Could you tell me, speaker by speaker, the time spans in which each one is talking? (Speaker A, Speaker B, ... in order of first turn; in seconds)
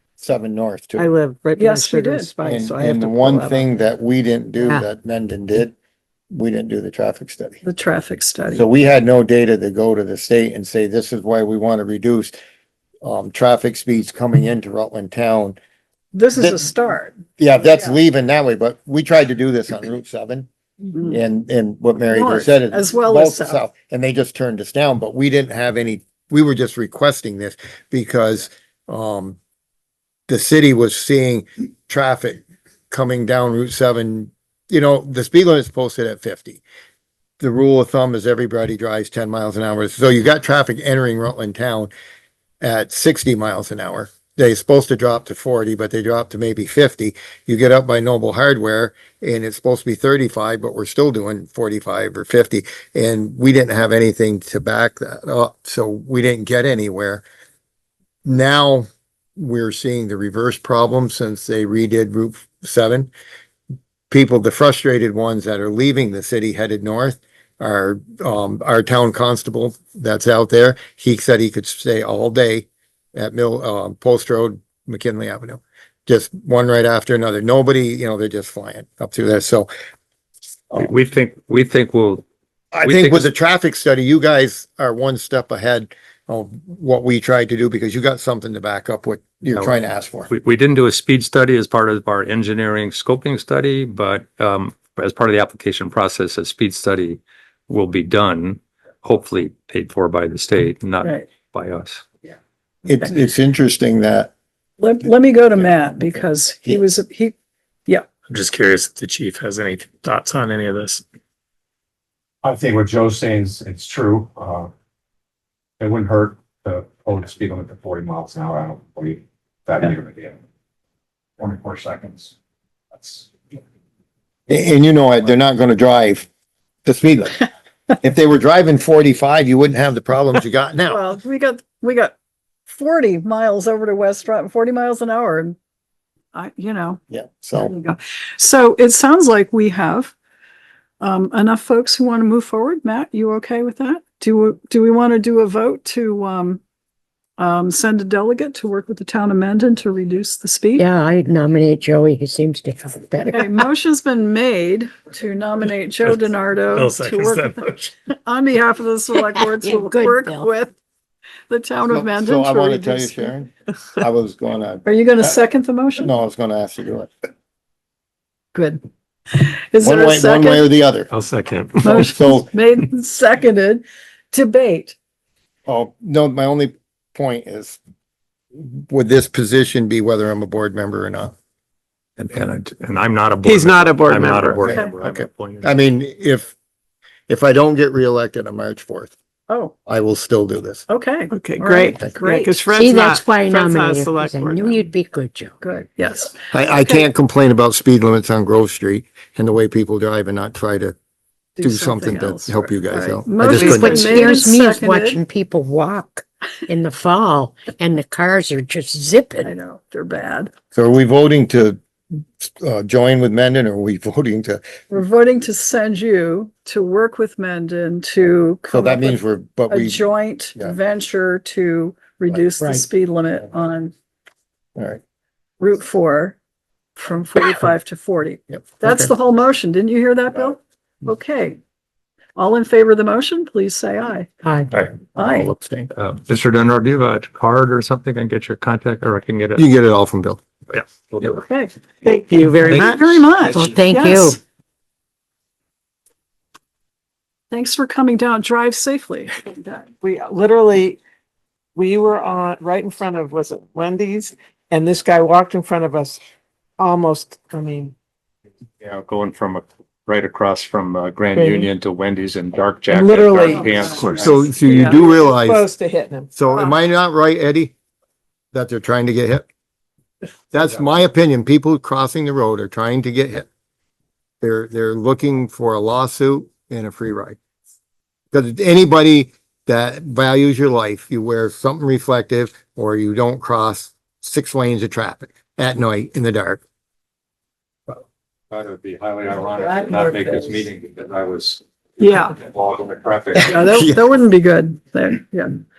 Speaker A: 0.2-1.1, 2.4-5.7, 6.3-7.6, 8.5-12.3, 13.0-15.6, 16.4-16.7, 17.4-20.5, 21.1-29.4, 30.3-36.6, 37.4-41.9, 42.6-57.2, 58.2-63.1, 64.1-79.7, 82.7-90.3, 102.8-104.3, 124.5-126.3, 126.8-127.5, 128.0-131.0, 137.1-137.7, 161.9-165.4, 166.0-167.1, 169.8-171.1, 172.0-172.5, 175.7-177.8, 178.5-181.3, 185.0-186.6, 187.3-189.2, 189.9-190.8, 196.5-200.9, 201.6-204.3, 210.7-211.8, 212.4-214.6, 218.7-220.8, 224.8-225.0, 228.5-229.1, 235.1-235.9, 239.6-240.4, 264.2-265.7, 266.4-267.7, 268.5-269.5, 270.5-273.5, 274.4-277.4, 278.3-286.6, 293.5-294.0
Speaker B: 1.0-3.7, 183.4-184.8, 191.3-194.8, 203.5-203.8, 242.0-243.2, 250.0-251.0, 251.8-256.2, 256.8-257.9, 261.4-261.7, 262.9-263.7, 264.5-266.3, 289.8-290.3
Speaker C: 1.6-2.4, 7.6-8.7, 16.1-17.2, 22.1-23.6, 101.0-101.3, 104.8-107.3, 130.9-132.2, 132.7-135.6, 136.3-137.0, 137.6-140.1, 141.0-146.6, 147.4-150.8, 153.3-160.8, 161.5-163.3, 164.8-166.1, 168.5-168.8, 169.3-170.7, 171.8-174.9, 184.7-185.0, 189.5-189.7, 190.9-192.5, 195.6-197.1, 201.6-205.2, 209.4-210.5, 214.9-219.2, 219.7-223.9, 225.6-226.4, 227.0-231.6, 232.4-234.3, 235.2-235.5, 241.2-241.7, 242.7-244.4, 247.5-249.9, 263.4-265.0, 266.5-266.8, 292.0-292.4, 293.5-295.6
Speaker D: 80.7-82.2, 82.8-83.3, 90.3-102.0, 171.1-172.1, 182.2-185.7, 235.9-239.7, 240.7-241.4, 242.7-242.9, 258.8-264.5, 288.5-291.6, 292.2-293.9
Speaker E: 108.3-111.0, 156.7-157.9
Speaker F: 112.4-114.7, 115.8-120.4, 121.4-122.3, 122.9-123.3
Speaker G: 150.8-153.6, 159.3-160.5, 192.7-195.6, 203.4-209.5, 234.4-234.7, 243.5-244.4